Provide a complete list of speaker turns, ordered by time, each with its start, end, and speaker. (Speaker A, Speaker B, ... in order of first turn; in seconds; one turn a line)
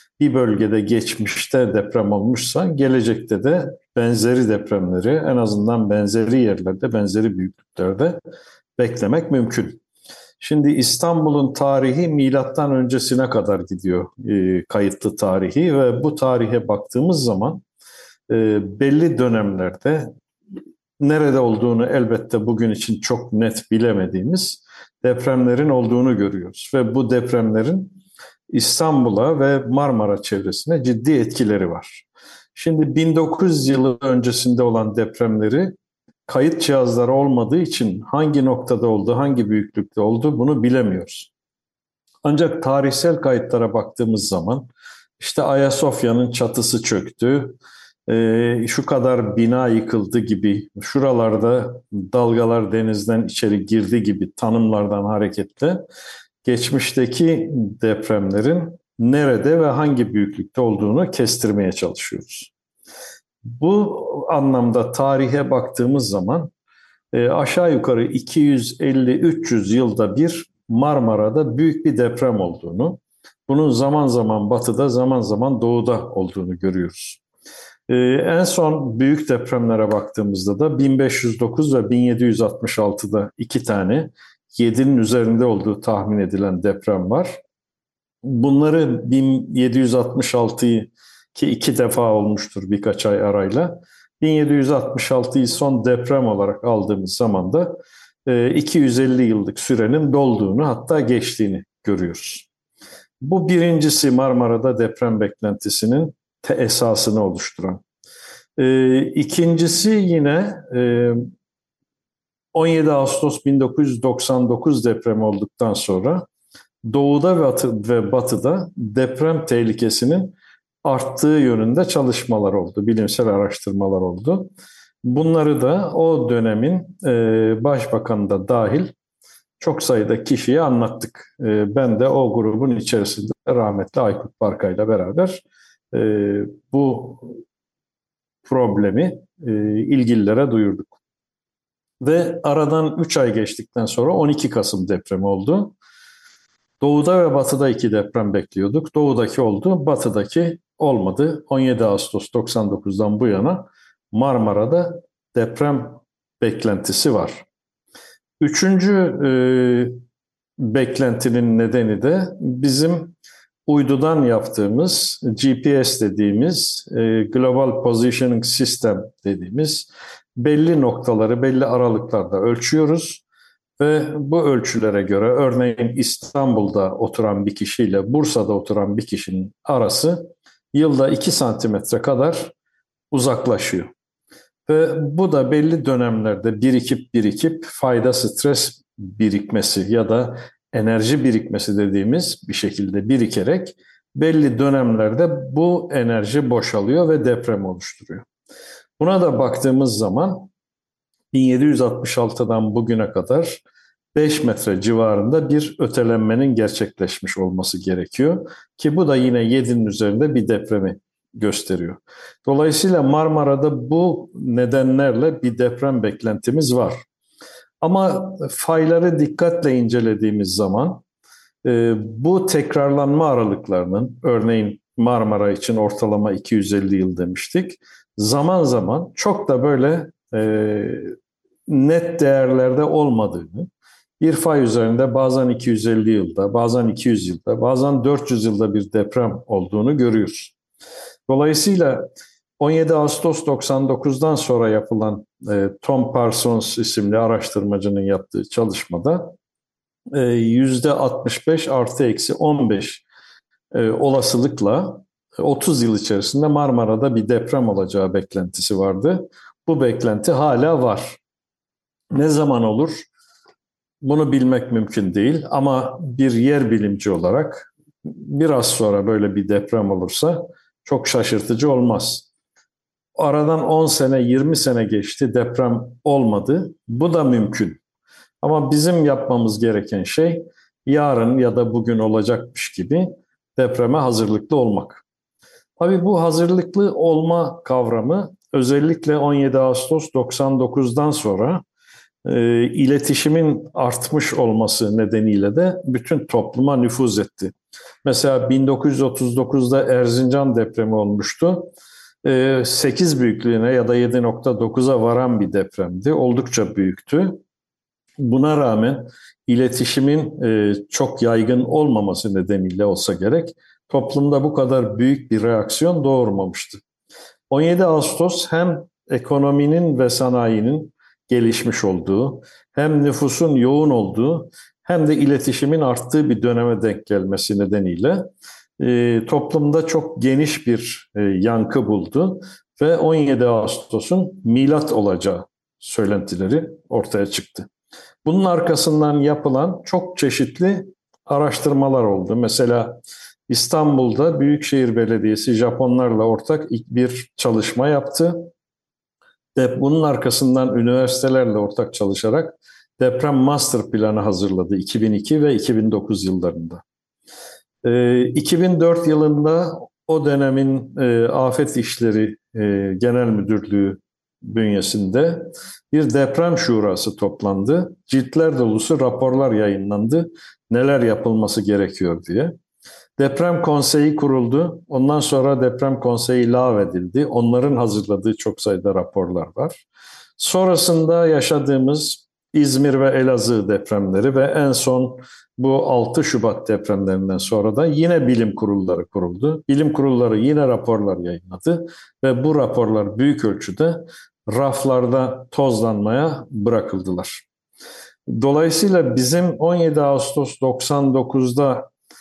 Speaker A: 0.2-8.2
Speaker A: 8.8-9.8
Speaker A: 10.4-17.6
Speaker A: 18.3-20.1
Speaker A: 21.0-28.0
Speaker A: 28.5-35.7
Speaker A: 36.3-41.3
Speaker A: 42.2-55.8
Speaker A: 56.4-62.5
Speaker A: 63.4-66.5
Speaker A: 67.1-77.2
Speaker A: 77.9-87.4
Speaker A: 88.2-102.5
Speaker A: 103.2-107.8
Speaker A: 108.6-111.3
Speaker A: 112.5-116.2
Speaker A: 116.8-124.5
Speaker A: 125.0-128.9
Speaker A: 129.6-137.4
Speaker A: 138.4-140.9
Speaker A: 142.0-145.7
Speaker A: 146.8-157.4
Speaker A: 158.4-160.0
Speaker A: 160.6-163.1
Speaker A: 163.7-173.2
Speaker A: 173.8-182.5
Speaker A: 183.1-183.9
Speaker A: 184.7-198.2
Speaker A: 199.0-200.5
Speaker A: 201.3-203.6
Speaker A: 204.1-217.0
Speaker A: 217.8-221.0
Speaker A: 221.6-231.1
Speaker A: 231.7-233.7
Speaker A: 234.2-240.5
Speaker A: 241.3-242.1
Speaker A: 242.6-249.3
Speaker A: 250.1-253.0
Speaker A: 253.7-261.2
Speaker A: 262.1-263.1
Speaker A: 264.0-272.2
Speaker A: 273.1-277.8
Speaker A: 278.4-285.0
Speaker A: 285.8-291.6
Speaker A: 292.2-301.7
Speaker A: 302.2-307.4
Speaker A: 308.2-316.8
Speaker A: 317.5-337.7
Speaker A: 338.2-348.5
Speaker A: 349.5-356.8
Speaker A: 357.8-372.6
Speaker A: 373.2-379.8
Speaker A: 380.4-397.4
Speaker A: 398.3-401.9